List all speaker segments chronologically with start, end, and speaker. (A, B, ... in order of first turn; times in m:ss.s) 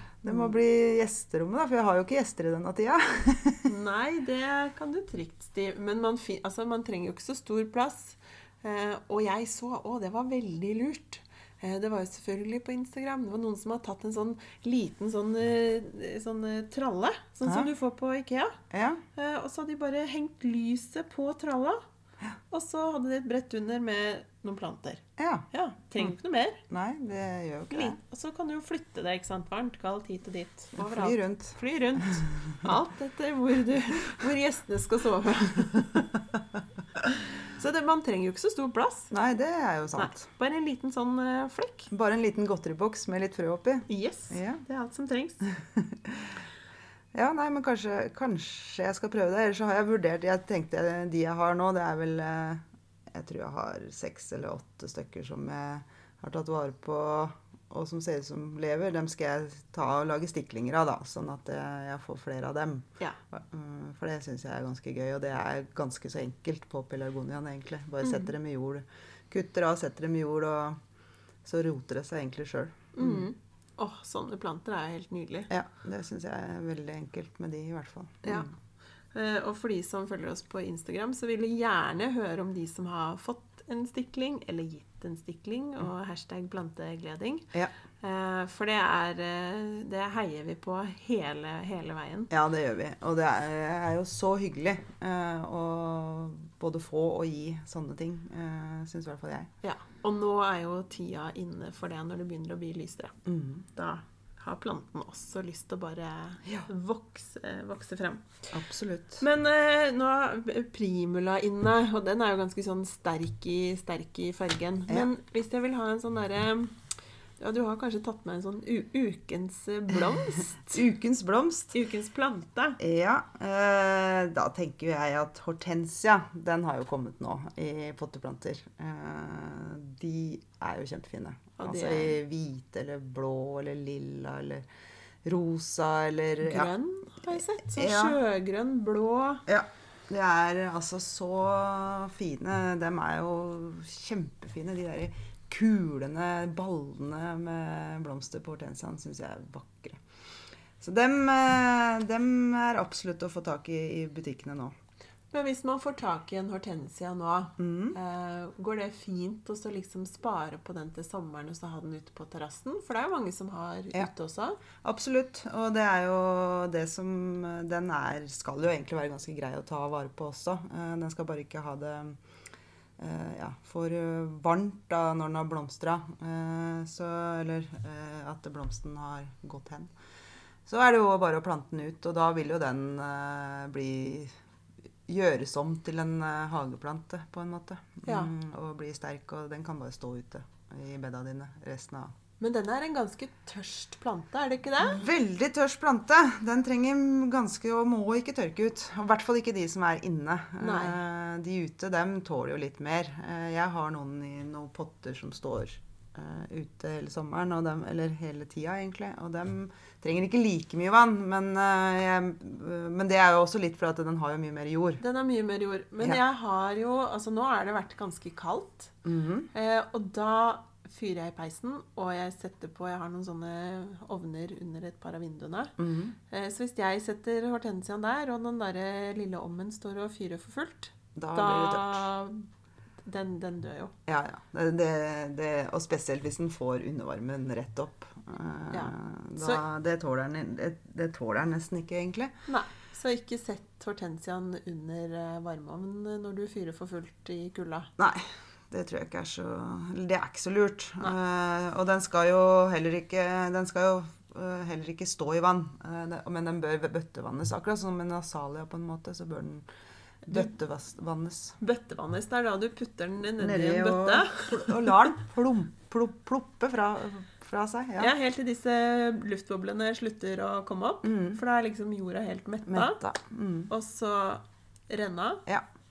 0:00.2-0:03.6 A
0:03.6-0:18.6 B
0:18.7-0:19.0 A
0:19.1-0:21.8 B
0:22.5-0:26.6 B
0:25.2-0:25.4 A
0:26.7-0:28.0 A
0:27.7-0:36.1 B
0:30.8-0:31.6 A
0:37.5-0:39.1 B
0:39.1-0:40.2 A
0:40.0-0:41.9 B
0:41.9-0:44.6 A
0:43.9-0:45.4 B
0:45.4-0:46.4 A
0:47.1-1:10.8 A
1:08.0-1:08.3 B
1:11.4-1:13.2 A
1:12.9-1:15.5 B
1:15.5-1:18.5 A
1:18.2-1:18.5 B
1:19.1-1:32.3 B
1:32.3-1:39.5 A
1:39.6-1:43.2 B
1:43.2-1:43.6 A
1:43.7-1:48.4 B
1:48.5-1:49.2 A
1:49.2-1:56.8 B
1:57.4-2:00.8 B
2:00.6-2:01.7 A
2:01.7-2:02.8 B
2:02.8-2:14.6 A
2:11.6-2:12.2 B
2:15.2-2:16.7 A
2:16.4-2:19.4 B
2:17.7-2:18.2 A
2:19.5-2:30.0 A
2:30.8-2:34.7 A
2:35.3-2:44.6 B
2:37.6-2:38.0 A
2:44.8-2:52.2 A
2:53.0-2:59.9 A
3:00.6-3:04.3 A
3:05.1-3:12.1 A
3:08.0-3:08.3 B
3:12.4-3:15.0 B
3:14.8-3:35.0 A
3:20.6-3:21.0 B
3:35.0-3:38.9 B
3:39.0-3:39.5 A
3:39.5-3:45.8 B
3:45.8-3:46.2 A
3:46.3-3:52.5 B
3:51.2-3:52.1 A
3:53.0-3:53.9 B
3:54.1-4:02.3 A
3:58.7-3:59.6 B
4:02.5-4:07.9 B
4:08.0-4:19.6 A
4:20.2-4:21.6 A
4:21.6-4:24.9 B
4:23.4-4:28.1 A
4:28.0-4:33.0 B
4:31.0-4:31.4 A
4:32.7-4:33.7 A
4:33.7-4:35.4 B